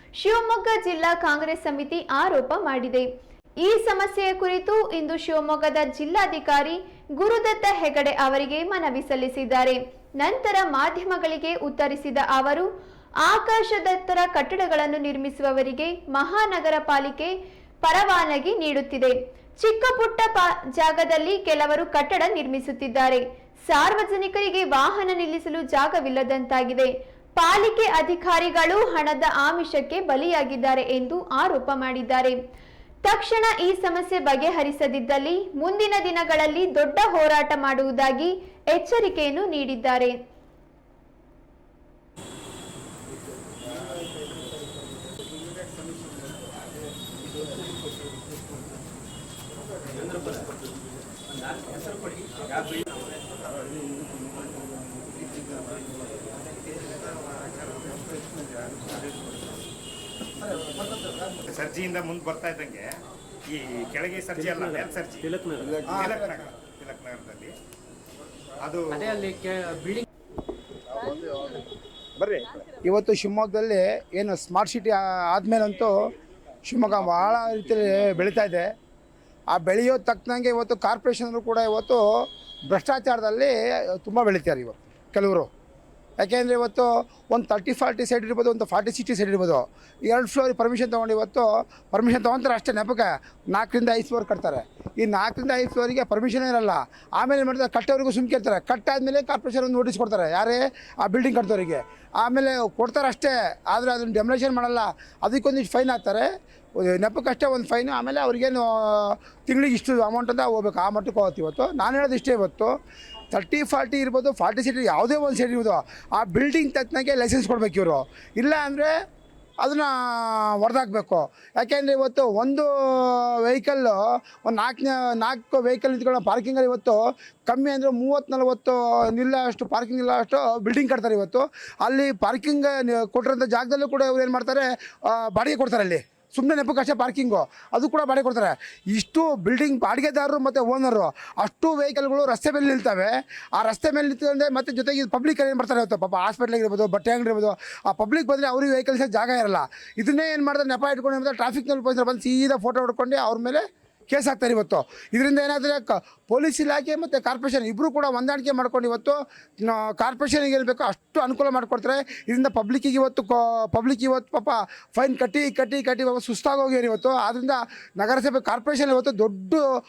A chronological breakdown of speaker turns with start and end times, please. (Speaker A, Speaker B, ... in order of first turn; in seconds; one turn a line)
Speaker A: 0.2-3.0
Speaker A: 3.6-12.7
Speaker A: 13.2-32.4
Speaker A: 33.0-40.1
Speaker B: 50.1-50.5
Speaker B: 51.5-52.9
Speaker C: 60.4-61.3
Speaker D: 61.4-62.9
Speaker D: 63.5-67.5
Speaker B: 65.3-65.8
Speaker C: 65.8-66.3
Speaker D: 68.6-69.4
Speaker B: 69.2-70.0
Speaker C: 71.0-71.6
Speaker D: 72.2-72.6
Speaker C: 72.8-75.9
Speaker C: 76.6-78.7
Speaker C: 79.5-82.0
Speaker C: 82.7-85.5
Speaker C: 86.2-106.3
Speaker C: 106.8-112.7
Speaker C: 113.3-118.9
Speaker C: 119.6-169.6